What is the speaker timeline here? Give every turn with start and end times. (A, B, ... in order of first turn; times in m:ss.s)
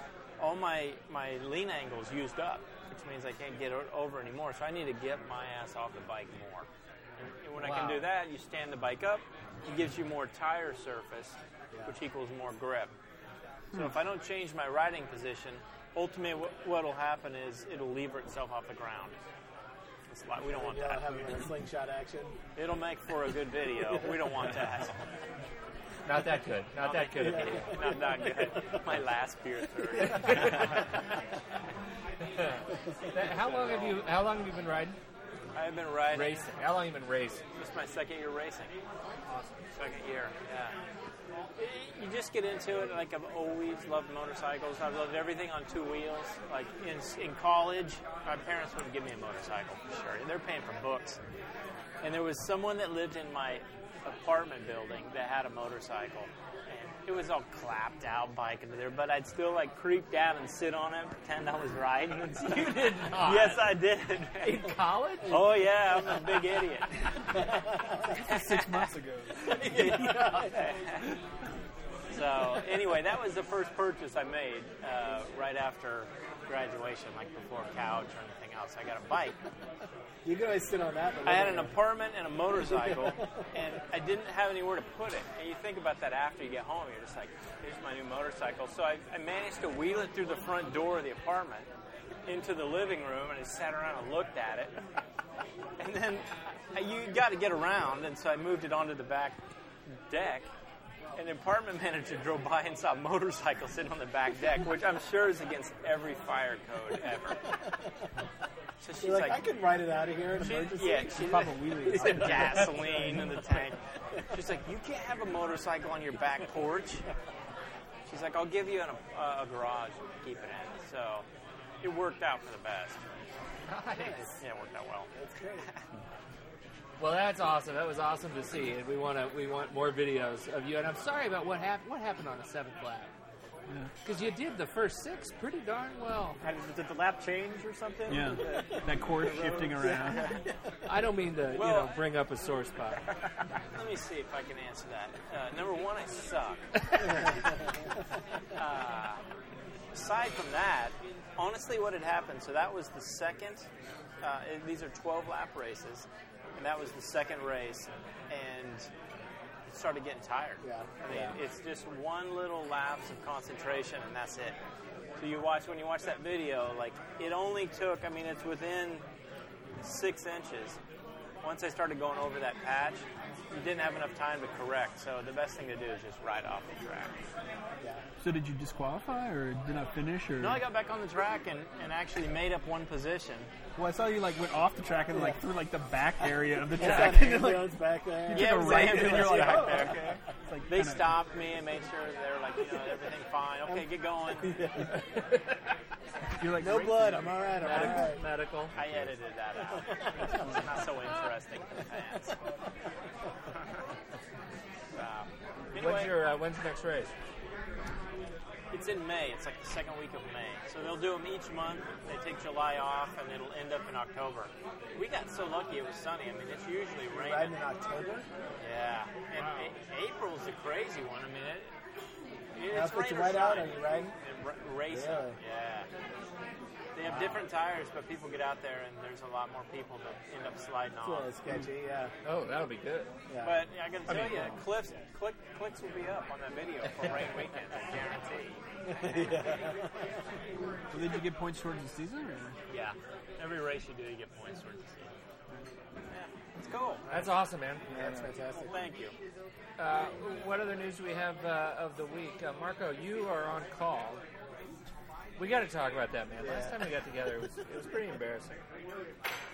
0:00.4-0:06.7 A
0:07.4-0:12.9 A
0:07.6-0:08.1 B
0:13.7-0:19.2 A
0:20.1-0:21.5 A
0:20.5-0:22.4 C
0:22.6-0:25.0 A
0:26.0-0:27.8 B
0:26.8-0:30.9 A
0:27.2-0:28.0 C
0:30.2-0:30.8 B
0:32.3-0:35.0 B
0:33.2-0:34.0 A
0:35.5-0:36.4 A
0:36.1-0:37.4 B
0:37.6-0:38.7 A
0:39.3-0:39.6 B
0:39.7-0:40.8 A
0:41.6-0:51.2 A
0:52.0-1:07.1 A
1:02.4-1:03.8 B
1:04.4-1:05.7 B
1:08.0-1:10.2 D
1:08.1-1:08.9 A
1:09.4-1:11.1 A
1:09.7-1:10.7 C
1:12.1-1:19.4 A
1:20.2-1:21.7 C
1:21.2-1:31.7 A
1:22.9-1:23.2 C
1:32.3-1:34.8 A
1:35.8-1:39.4 A
1:39.9-1:40.5 A
1:41.2-1:47.4 A
1:48.8-1:49.4 A
1:49.0-1:51.1 C
1:50.4-1:53.8 A
1:51.0-1:53.2 D
1:52.1-1:53.5 C
1:54.3-1:57.0 A
1:58.1-2:01.2 A
2:01.8-2:03.0 A
2:03.7-2:04.3 B
2:04.0-2:04.3 C
2:04.4-2:05.1 A
2:05.2-2:05.6 C
2:07.0-2:13.1 B
2:14.0-2:16.4 B
2:16.4-2:19.9 E
2:18.1-2:20.3 D
2:20.8-2:23.0 B
2:21.6-2:21.9 A
2:23.7-2:26.7 A
2:28.6-2:29.2 A
2:29.9-2:33.7 A
2:34.2-2:38.9 A
2:39.7-2:44.6 A
2:40.6-2:40.9 C
2:45.2-2:49.0 A
2:49.8-2:50.8 A
2:51.4-2:57.2 A
2:58.2-3:00.6 D
3:00.4-3:03.5 A
3:03.8-3:11.2 D
3:05.1-3:05.4 C
3:06.7-3:10.2 C
3:06.8-3:07.1 B
3:08.3-3:14.6 A
3:14.4-3:15.1 C
3:16.4-3:17.9 D
3:16.6-3:18.2 C
3:17.6-3:18.7 B
3:18.7-3:22.3 A
3:20.3-3:20.7 D
3:25.0-3:26.2 A
3:25.7-3:27.1 B
3:28.7-3:37.5 A
3:37.1-3:38.2 C
3:38.6-3:41.7 A
3:42.5-3:45.9 A
3:42.7-3:44.1 C
3:44.9-3:45.4 C
3:46.9-3:51.3 A
3:51.0-3:52.1 C
3:52.2-3:53.1 B
3:53.3-3:53.6 C
3:53.4-3:58.6 A
3:54.1-3:54.6 B
3:58.9-4:00.0 C
4:00.9-4:02.6 D
4:02.7-4:05.1 A
4:06.1-4:07.1 A
4:07.1-4:07.8 B
4:07.9-4:08.8 C
4:08.6-4:09.1 A
4:09.8-4:14.2 B
4:15.4-4:18.6 B
4:16.4-4:16.8 C